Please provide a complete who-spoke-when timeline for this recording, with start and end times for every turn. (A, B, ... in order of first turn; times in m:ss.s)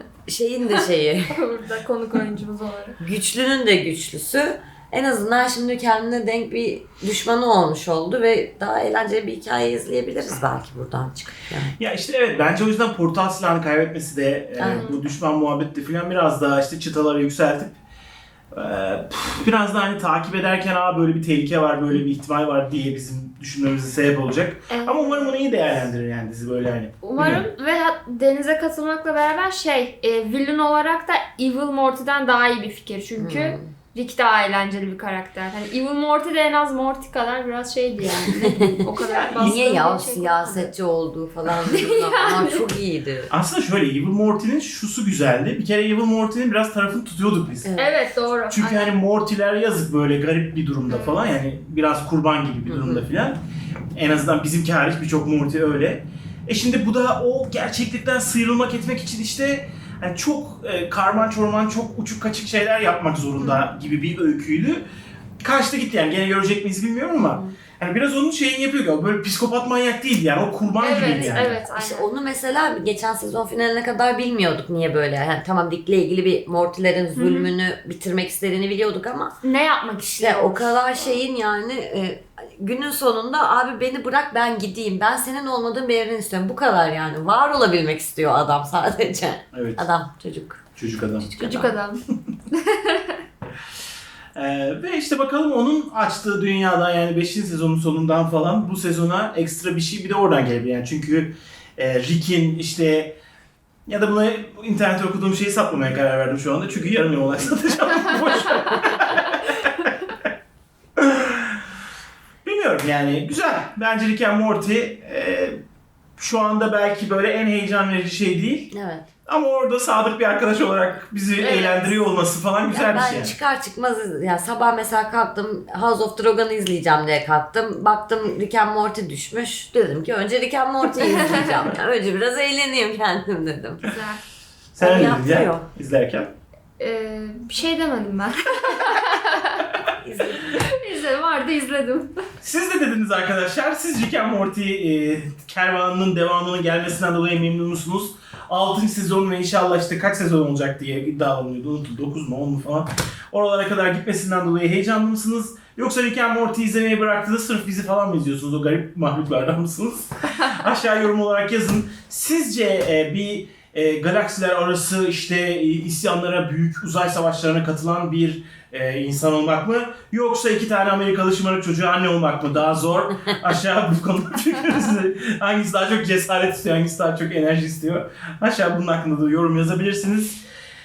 0:00.3-0:01.4 A
0:01.3-0:03.0 B
0:03.0-0:11.7 A
0:11.8-0:17.8 C
0:14.6-0:14.9 A
0:14.7-0:15.0 B
0:18.5-0:27.4 C
0:24.7-0:25.6 B
0:27.0-0:40.7 B
0:33.2-0:33.7 A
0:38.2-0:43.3 A
0:39.0-0:39.6 C
0:41.6-0:42.8 B
0:43.3-0:47.7 C
0:47.6-0:48.0 A
0:47.8-0:49.0 B
0:48.5-0:53.4 C
0:50.9-0:51.3 B
0:52.7-0:53.1 A
0:53.9-1:04.8 C
1:03.4-1:03.7 B
1:05.4-1:11.6 C
1:07.2-1:07.6 A
1:10.8-1:12.1 B
1:11.7-1:19.3 A
1:17.2-1:17.5 B
1:19.4-1:21.2 B
1:20.2-1:30.6 A
1:29.5-1:29.8 C
1:30.8-1:31.3 C
1:31.2-1:31.8 A
1:31.4-1:33.2 B
1:34.3-1:43.2 C
1:43.9-1:49.9 C
1:51.0-1:51.6 C
1:52.4-1:55.6 C
1:56.2-1:58.7 C
1:58.7-1:59.1 A
1:59.3-2:03.3 C
2:01.4-2:02.0 B
2:02.7-2:13.8 A
2:11.0-2:11.5 B
2:13.8-2:14.2 B
2:14.7-2:16.3 C
2:14.8-2:15.6 A
2:16.8-2:19.8 B
2:20.0-2:20.5 A
2:20.4-2:22.2 B
2:22.4-3:00.4 C